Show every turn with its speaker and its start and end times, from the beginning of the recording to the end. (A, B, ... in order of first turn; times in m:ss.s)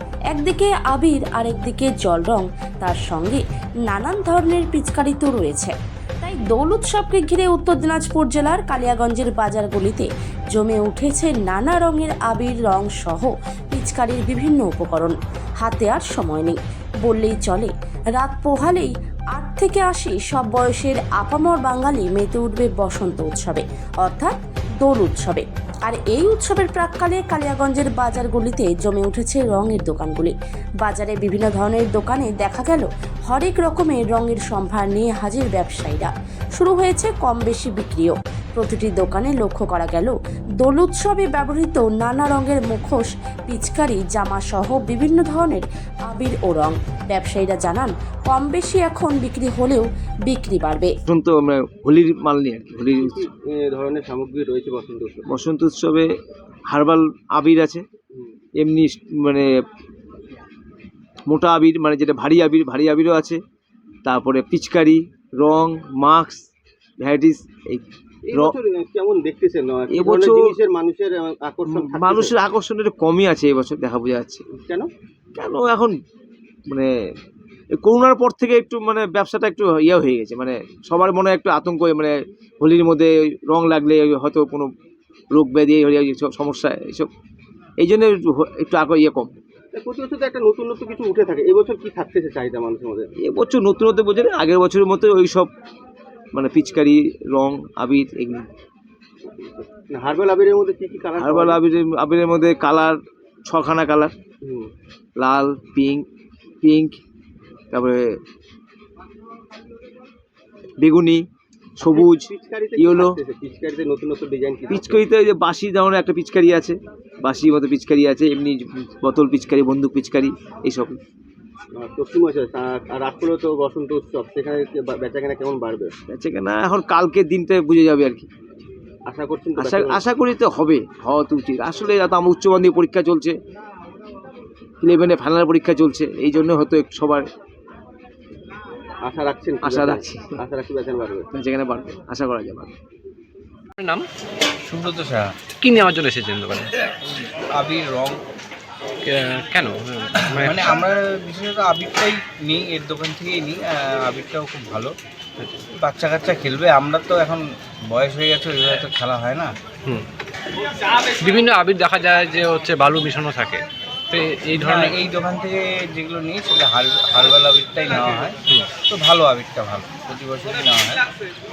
0:00.3-0:50.9 A
0:51.1-0:53.2 B
0:52.9-0:55.2 C
0:55.3-0:56.1 B
0:56.7-0:57.8 B
0:58.6-0:59.5 B
1:01.3-1:03.4 B
1:04.0-1:06.4 B
1:07.0-1:08.6 B
1:08.3-1:12.3 C
1:09.9-1:10.5 B
1:11.7-1:14.4 B
1:14.5-1:14.9 C
1:15.4-1:16.0 B
1:16.6-1:16.9 B
1:17.8-1:24.7 B
1:25.3-1:27.1 B
1:27.8-1:29.3 B
1:29.7-1:33.1 C
1:33.2-1:35.5 B
1:36.3-1:38.5 B
1:39.2-1:41.6 C
1:41.2-1:44.1 B
1:44.4-1:44.7 C
1:45.2-1:46.0 B
1:46.6-1:47.0 B
1:47.7-1:48.0 B
1:50.8-1:51.2 B
1:51.8-1:53.2 B
1:51.8-1:55.0 C
1:54.7-2:01.0 B
2:01.7-2:06.0 C
2:06.1-2:08.3 B
2:09.0-2:10.0 C
2:09.6-2:13.3 B
2:14.8-2:17.2 B
2:19.0-2:21.3 C
2:19.6-2:20.4 B
2:21.3-2:22.7 B
2:23.8-2:24.0 D
2:24.6-2:25.3 E
2:25.6-2:26.9 D
2:27.5-2:28.2 E
2:29.0-2:30.8 D
2:30.2-2:34.9 E
2:35.8-2:39.5 E
2:40.9-2:45.0 D
2:44.5-2:51.0 E